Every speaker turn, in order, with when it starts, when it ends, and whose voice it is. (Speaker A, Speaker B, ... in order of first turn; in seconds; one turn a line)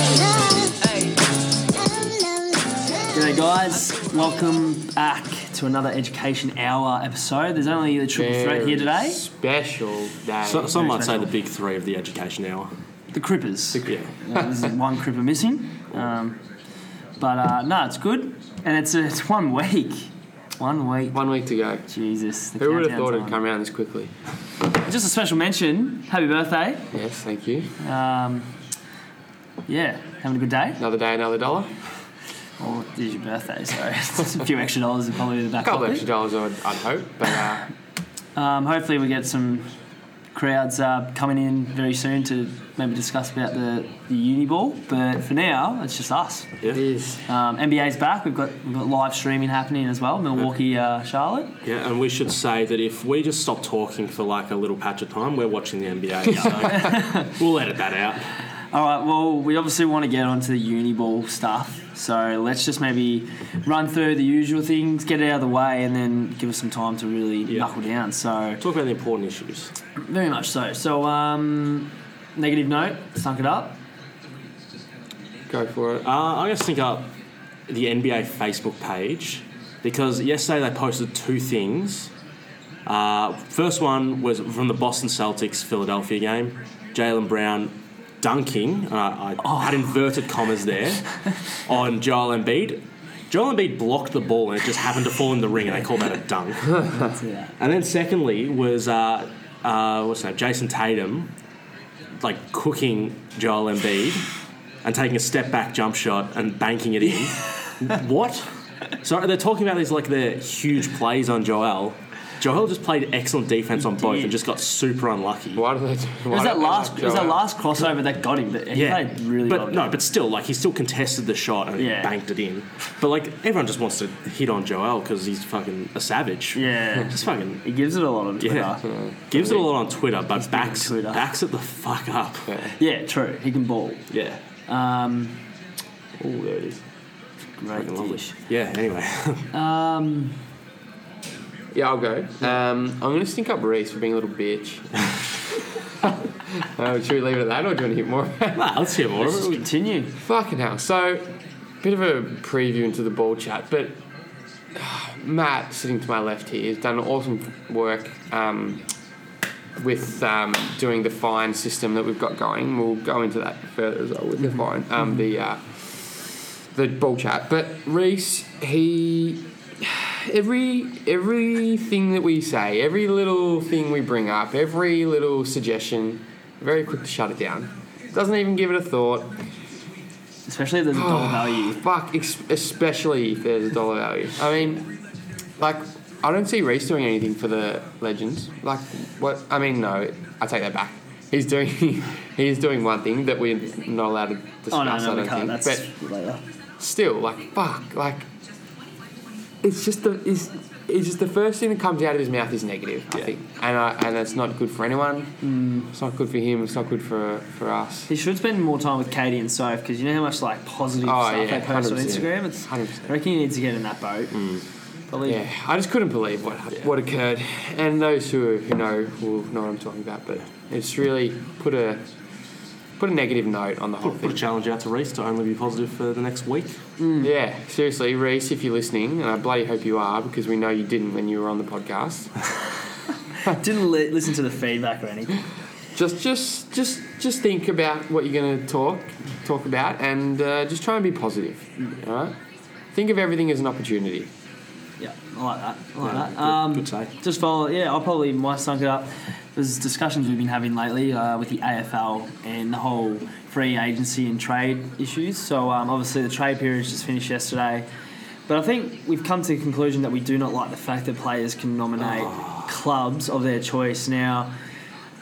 Speaker A: 3.1-9.2
Speaker B: 8.2-10.9
Speaker C: 10.4-12.7
Speaker A: 10.8-11.3
Speaker A: 13.1-16.4
Speaker B: 13.8-14.5
Speaker A: 17.2-21.2
Speaker B: 21.1-21.9
Speaker A: 21.9-23.4
Speaker B: 22.6-24.1
Speaker A: 24.8-26.9
Speaker B: 26.9-27.7
Speaker A: 27.8-28.5
Speaker A: 29.7-30.8
Speaker B: 30.8-31.7
Speaker A: 32.6-36.1
Speaker B: 35.6-37.7
Speaker A: 38.4-39.7
Speaker A: 40.3-46.5
Speaker B: 46.7-47.3
Speaker A: 47.3-51.5
Speaker C: 51.6-58.4
Speaker A: 56.3-57.3
Speaker A: 58.7-68.6
Speaker C: 68.6-69.7
Speaker A: 70.0-73.8
Speaker B: 75.5-76.1
Speaker C: 76.0-77.1
Speaker C: 77.7-82.1
Speaker C: 82.8-96.9
Speaker A: 89.4-89.8
Speaker A: 96.9-97.5
Speaker C: 97.6-101.3
Speaker C: 102.2-104.3
Speaker C: 104.8-108.5
Speaker C: 109.0-115.7
Speaker A: 113.8-114.4
Speaker B: 115.5-117.4
Speaker A: 116.3-119.9
Speaker C: 118.7-127.6
Speaker A: 121.8-122.1
Speaker A: 126.5-128.8
Speaker C: 128.4-128.8
Speaker B: 128.8-129.7
Speaker C: 129.3-132.6
Speaker A: 130.4-131.3
Speaker B: 132.5-132.8
Speaker A: 132.8-134.1
Speaker C: 134.1-134.4
Speaker A: 134.7-135.4
Speaker A: 137.6-138.3
Speaker C: 137.8-139.5
Speaker A: 139.5-140.4
Speaker B: 141.7-148.8
Speaker C: 148.5-149.7
Speaker A: 149.2-150.2
Speaker B: 150.2-151.3
Speaker B: 151.8-154.0
Speaker B: 154.8-158.8
Speaker B: 159.8-179.4
Speaker A: 180.5-181.8
Speaker B: 180.9-184.9
Speaker B: 185.6-195.9
Speaker A: 194.7-196.4
Speaker B: 196.8-198.3
Speaker B: 199.6-205.4
Speaker A: 205.4-205.9
Speaker B: 205.9-208.1
Speaker A: 208.1-214.5
Speaker B: 211.0-213.1
Speaker C: 214.3-214.6
Speaker A: 215.1-215.4
Speaker B: 215.2-222.0
Speaker B: 223.0-224.4
Speaker C: 224.0-226.8
Speaker A: 227.0-227.3
Speaker B: 227.2-232.4
Speaker A: 233.4-235.4
Speaker B: 235.9-242.4
Speaker B: 242.9-244.3
Speaker A: 245.0-257.9
Speaker C: 246.0-247.1
Speaker A: 258.5-264.5
Speaker C: 262.0-262.7